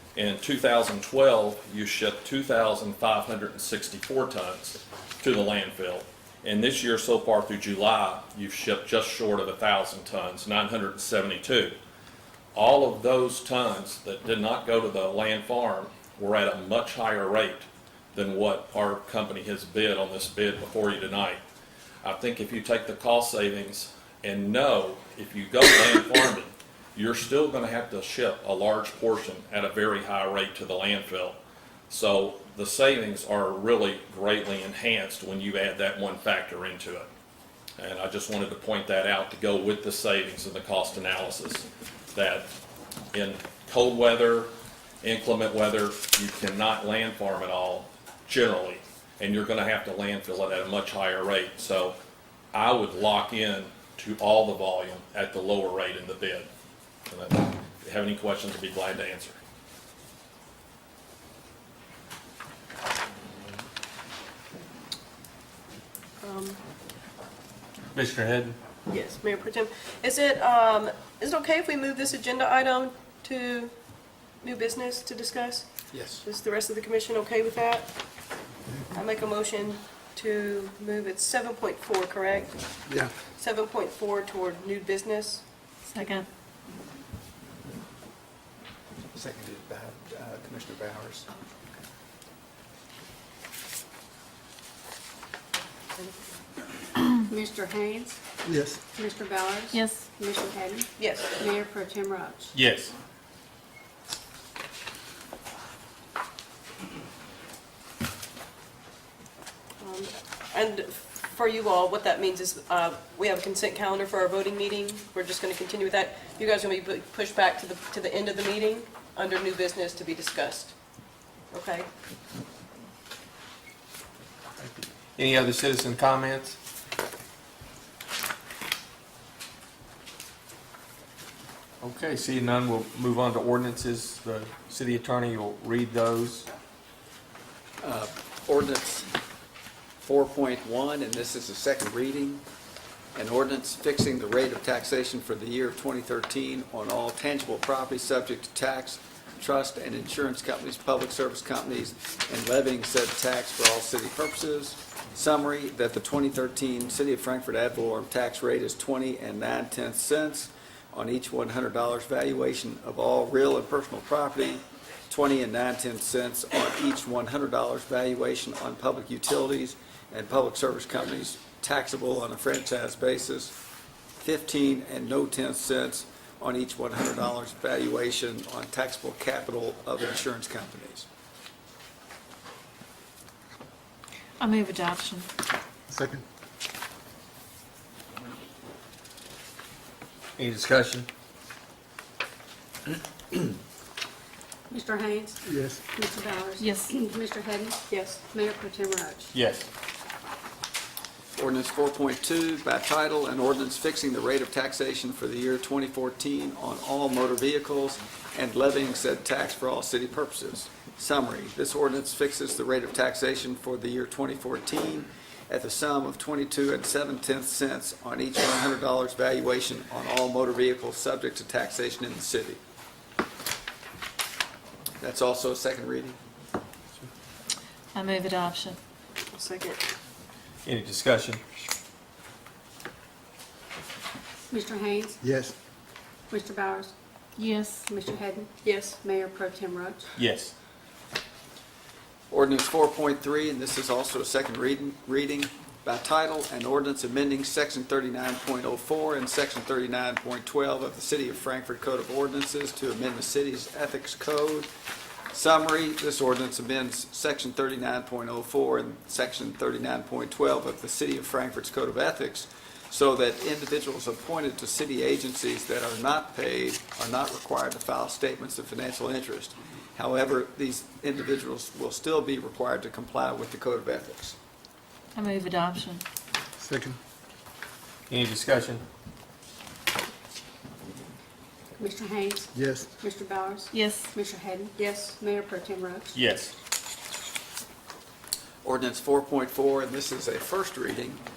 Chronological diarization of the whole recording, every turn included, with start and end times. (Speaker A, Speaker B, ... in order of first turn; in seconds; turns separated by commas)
Speaker A: 0.2-11.8, Speaker A: 12.6-21.4, Speaker A: 22.0-31.4, Speaker A: 31.9-37.1, Speaker A: 37.8-42.5, Speaker A: 43.1-44.5, Speaker A: 45.0-52.0, Speaker A: 52.5-56.5, Speaker A: 57.1-59.4, Speaker B: 66.2-66.6, Speaker C: 67.9-68.6, Speaker B: 68.9-73.7, Speaker B: 74.4-75.7, Speaker D: 75.9-76.2, Speaker B: 76.2-77.9, Speaker B: 78.9-82.8, Speaker B: 83.4-85.4, Speaker E: 85.9-86.3, Speaker D: 89.1-91.3, Speaker F: 97.3-98.2, Speaker G: 98.5-98.8, Speaker F: 98.9-102.5, Speaker E: 99.7-100.0, Speaker B: 101.0-101.3, Speaker C: 102.5-102.9, Speaker B: 109.8-120.8, Speaker B: 121.5-121.9, Speaker C: 124.6-126.6, Speaker C: 131.8-136.5, Speaker D: 137.8-139.1, Speaker D: 140.0-142.4, Speaker D: 143.2-173.5, Speaker D: 174.2-181.1, Speaker E: 184.4-185.3, Speaker G: 185.9-186.2, Speaker C: 190.4-191.1, Speaker F: 194.7-199.3, Speaker G: 195.5-195.8, Speaker E: 196.6-196.9, Speaker B: 197.9-198.2, Speaker C: 199.3-199.7, Speaker D: 201.4-222.6, Speaker D: 225.0-226.2, Speaker E: 227.9-228.8, Speaker B: 229.3-229.8, Speaker C: 230.7-231.4, Speaker F: 234.5-235.2, Speaker G: 235.2-235.5, Speaker F: 236.3-236.9, Speaker E: 237.4-237.9, Speaker F: 237.9-240.1, Speaker B: 238.6-239.0, Speaker C: 240.2-240.5, Speaker D: 242.3-254.7, Speaker D: 255.3-274.4, Speaker E: 275.1-276.0, Speaker G: 276.6-277.0, Speaker C: 278.1-278.8, Speaker F: 281.8-286.1, Speaker G: 282.6-282.9, Speaker E: 283.7-284.1, Speaker B: 284.8-285.1, Speaker C: 286.1-286.5, Speaker D: 288.6-291.2